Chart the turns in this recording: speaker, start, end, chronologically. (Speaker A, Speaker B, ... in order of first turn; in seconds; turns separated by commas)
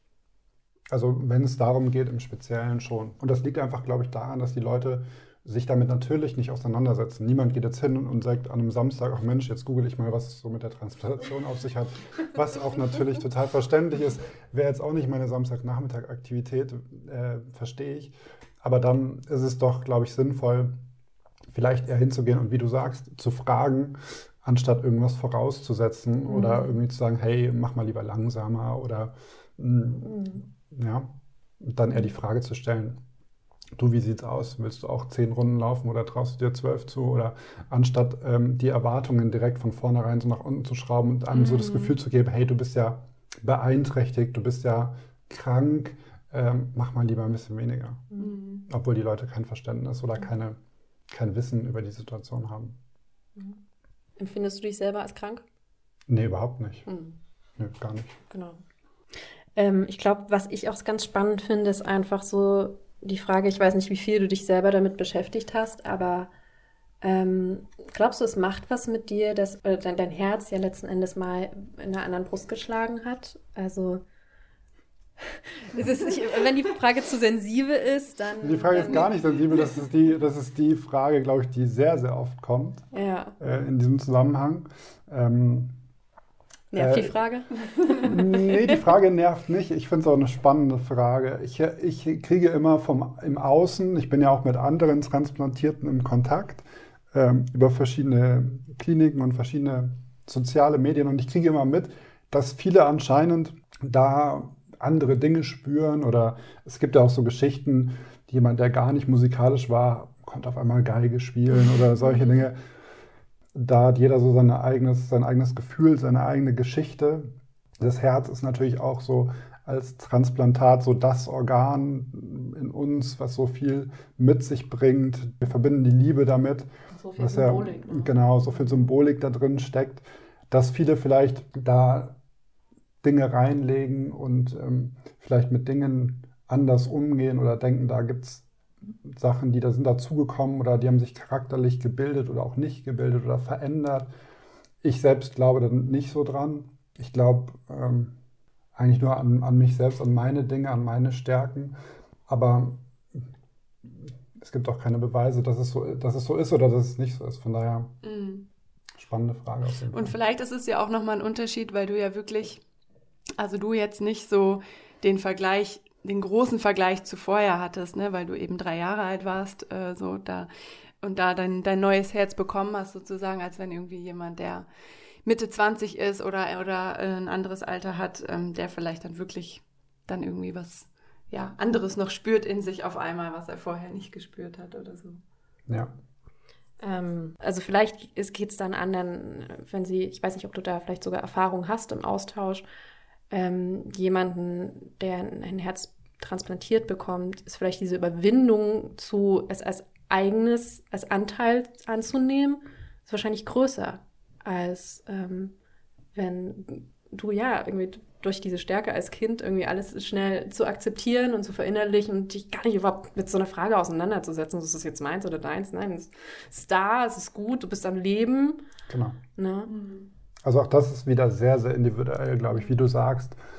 Speaker A: 0.9-20.7, Speaker A: 21.5-33.0, Speaker B: 26.3-26.7, Speaker A: 33.8-48.1, Speaker C: 48.2-48.6, Speaker A: 48.7-50.6, Speaker A: 51.1-52.8, Speaker B: 54.2-55.4, Speaker A: 56.1-56.9, Speaker B: 56.9-57.2, Speaker A: 57.6-58.2, Speaker B: 58.3-58.6, Speaker B: 59.5-66.3, Speaker B: 67.0-74.0, Speaker B: 75.2-79.1, Speaker A: 78.4-82.8, Speaker B: 82.9-83.3, Speaker A: 83.4-85.8, Speaker B: 86.7-88.6, Speaker A: 86.8-87.2, Speaker A: 88.0-112.6, Speaker A: 113.5-132.1, Speaker B: 126.9-128.2, Speaker A: 133.0-138.5, Speaker A: 139.0-144.1, Speaker A: 144.8-148.1, Speaker A: 148.7-151.8, Speaker A: 152.3-153.2, Speaker A: 153.8-157.9, Speaker C: 158.0-158.5, Speaker A: 159.0-160.1, Speaker C: 159.9-162.6, Speaker C: 163.4-170.5, Speaker C: 171.0-174.7, Speaker C: 175.2-185.2, Speaker A: 185.7-185.9, Speaker B: 186.8-192.6, Speaker B: 193.3-205.5, Speaker B: 206.1-218.6, Speaker A: 218.9-219.2, Speaker B: 219.3-219.7, Speaker C: 219.7-220.1, Speaker A: 220.4-223.4